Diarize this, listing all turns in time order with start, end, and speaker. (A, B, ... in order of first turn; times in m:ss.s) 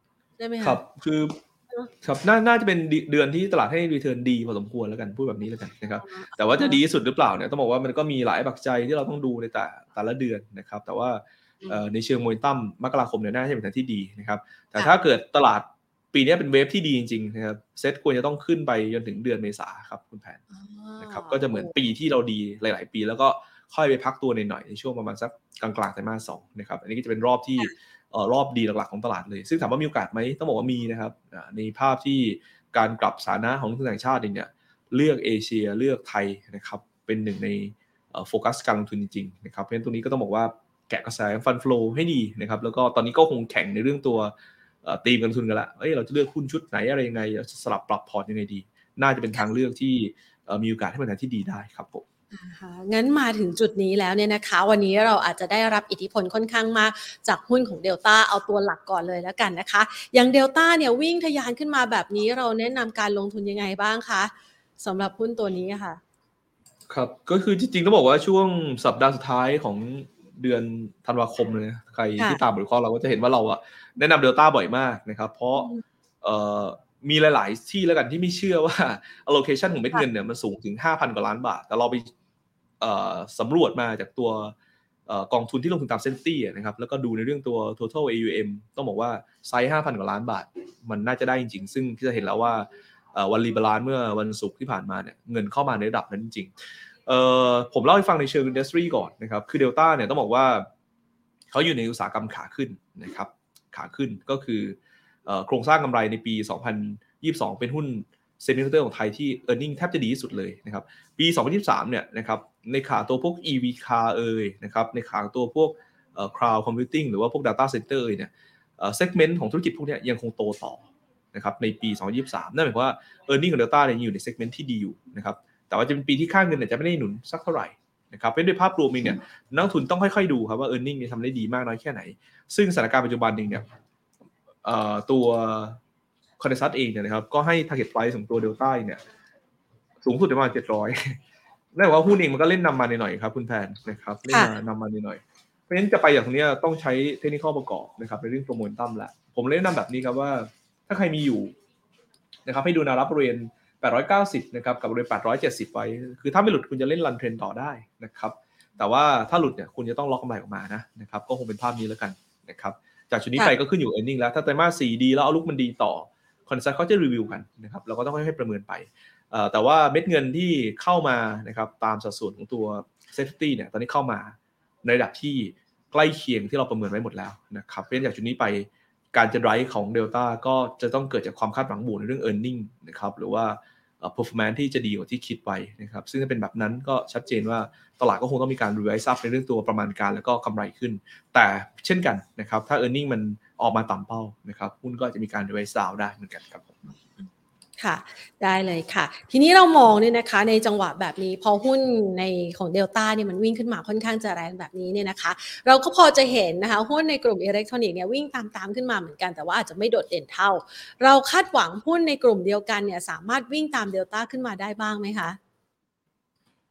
0:00.4-0:00.8 A
0:00.6-0:01.4 B
0:02.0-0:20.4 B
0:06.1-0:06.8 A
0:20.5-0:21.7 A
0:21.0-0:44.3 B
0:44.8-0:52.0 B
0:52.3-1:06.0 A
1:06.9-1:15.7 B
1:15.6-1:15.8 A
1:16.2-1:22.1 B
1:22.8-1:24.6 B
1:25.1-1:36.5 B
1:37.1-1:40.7 B
1:41.5-2:13.6 B
2:14.6-2:15.8 B
2:16.4-2:19.0 B
2:20.0-2:21.2 B
2:21.7-2:31.5 B
2:24.3-2:24.5 A
2:32.5-3:17.0 B
3:17.8-3:35.4 A